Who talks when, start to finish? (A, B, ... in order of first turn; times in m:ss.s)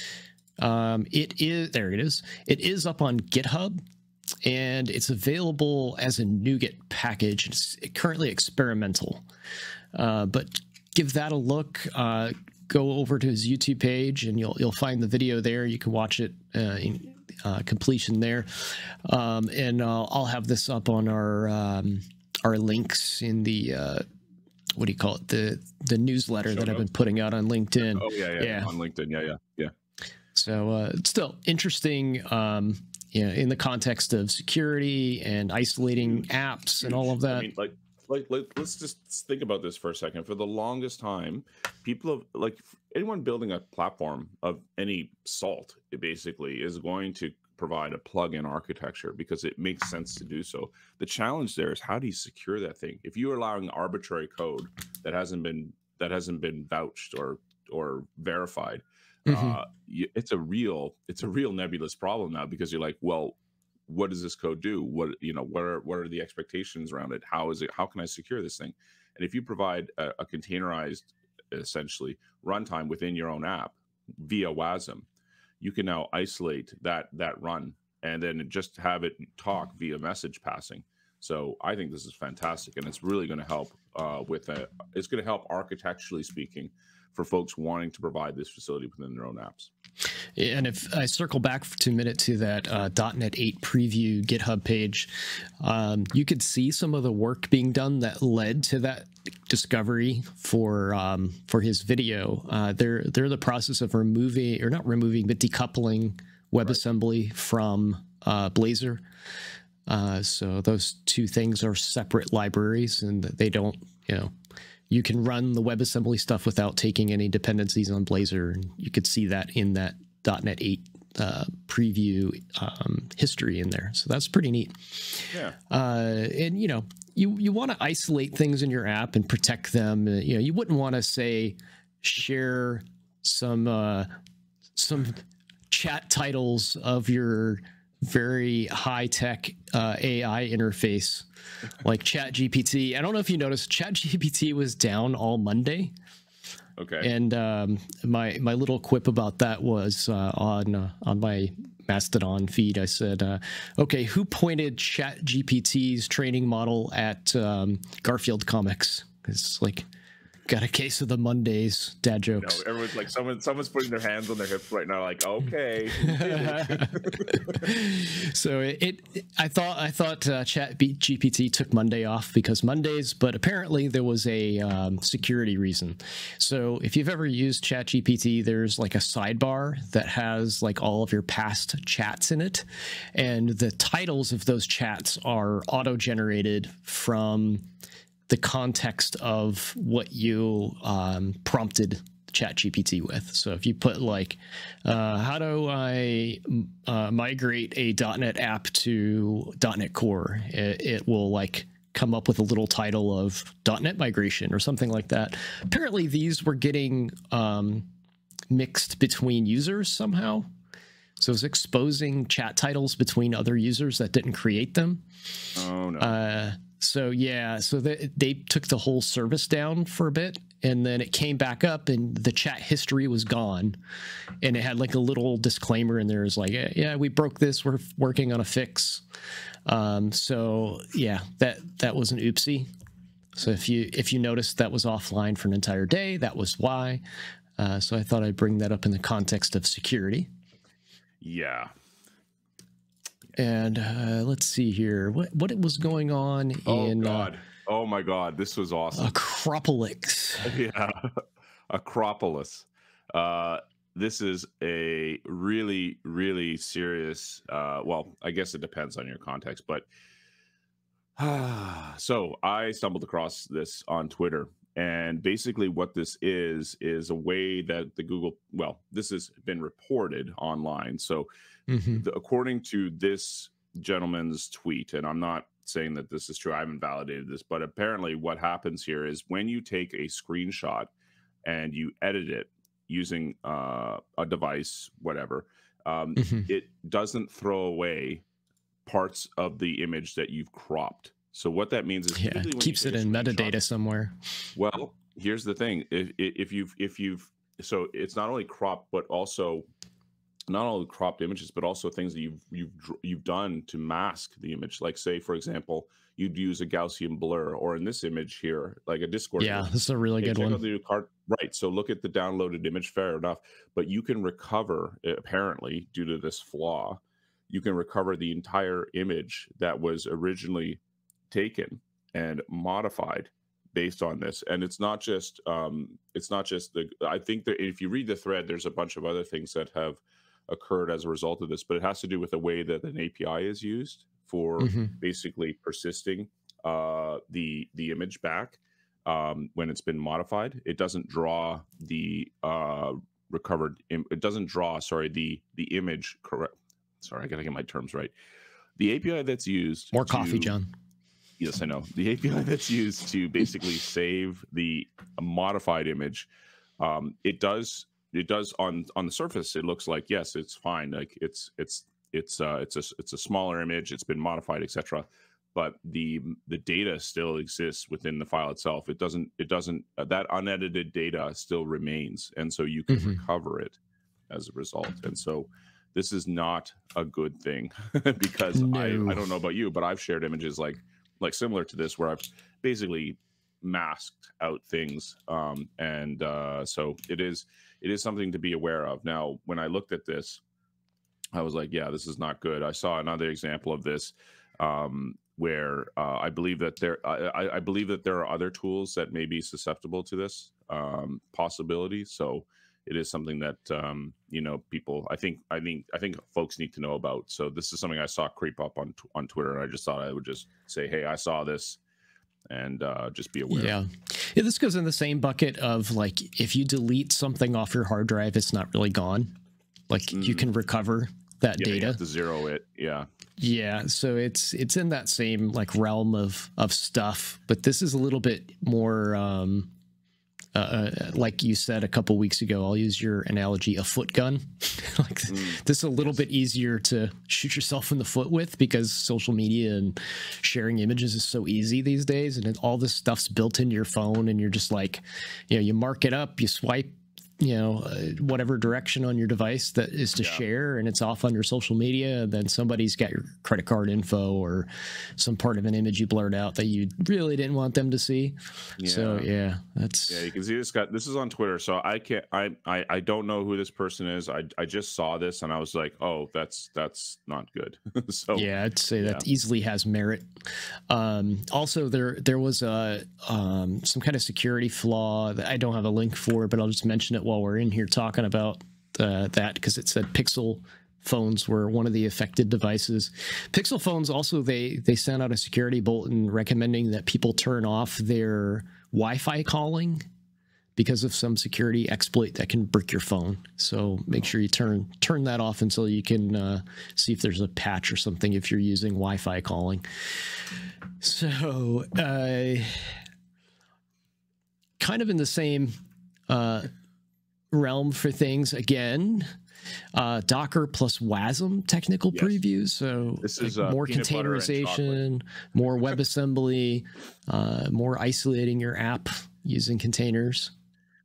0:00.6-0:03.8 A
0:04.4-0:09.2 A
0:09.9-0:24.0 A
0:24.8-0:28.7 A
0:26.5-0:26.8 B
0:27.9-0:29.7 B
0:30.4-0:37.5 A
0:36.8-1:15.1 B
0:59.3-0:59.6 A
1:15.6-1:29.7 B
1:30.4-1:49.0 A
1:49.9-1:54.3 A
1:54.9-2:14.1 A
2:05.3-2:05.6 B
2:14.8-2:21.3 A
2:21.8-2:25.9 A
2:26.8-2:27.1 B
2:27.0-2:39.9 A
2:40.5-2:42.6 A
2:42.4-2:47.6 B
2:46.0-3:07.6 A
3:08.3-3:27.9 A
3:28.5-3:30.5 A
3:31.2-3:35.0 A
3:35.6-3:36.2 B
3:36.0-3:43.8 A
3:44.4-3:49.0 A
3:49.7-3:52.7 A
3:53.4-3:57.0 A
3:57.6-4:00.3 A
4:01.2-4:01.7 B
4:03.4-4:07.3 A
4:06.7-4:09.2 B
4:08.9-4:10.6 A
4:10.4-4:19.9 B
4:21.2-4:31.3 B
4:31.7-4:32.0 A
4:31.9-4:40.9 B
4:41.4-4:48.2 B
4:46.2-4:46.5 A
4:48.9-4:53.6 B
4:52.2-4:54.2 A
4:54.6-4:59.7 B
5:00.5-5:09.7 B
5:09.4-5:10.6 A
5:10.2-5:48.1 B
5:34.6-5:34.9 A
5:48.8-5:50.6 B
5:49.9-5:50.7 A
5:51.4-5:56.3 B
5:56.8-6:13.8 B
6:12.9-6:13.2 A
6:14.3-6:30.4 B
6:18.5-6:19.2 A
6:31.3-6:51.8 B
6:52.5-6:53.8 B
6:53.5-6:59.3 A
6:59.9-7:02.0 A
7:00.1-7:00.5 B
7:01.6-7:03.1 B
7:03.4-7:09.7 A
7:10.6-7:40.3 A
7:15.3-7:15.6 B
7:38.8-7:39.3 B
7:40.1-7:48.5 B
7:48.3-8:10.0 A
8:10.8-8:19.8 A
8:21.0-8:23.0 A
8:24.8-8:25.7 A
8:26.3-8:26.7 A
8:27.5-8:29.3 A
8:29.9-8:40.5 A
8:32.1-8:32.4 B
8:33.2-8:35.0 B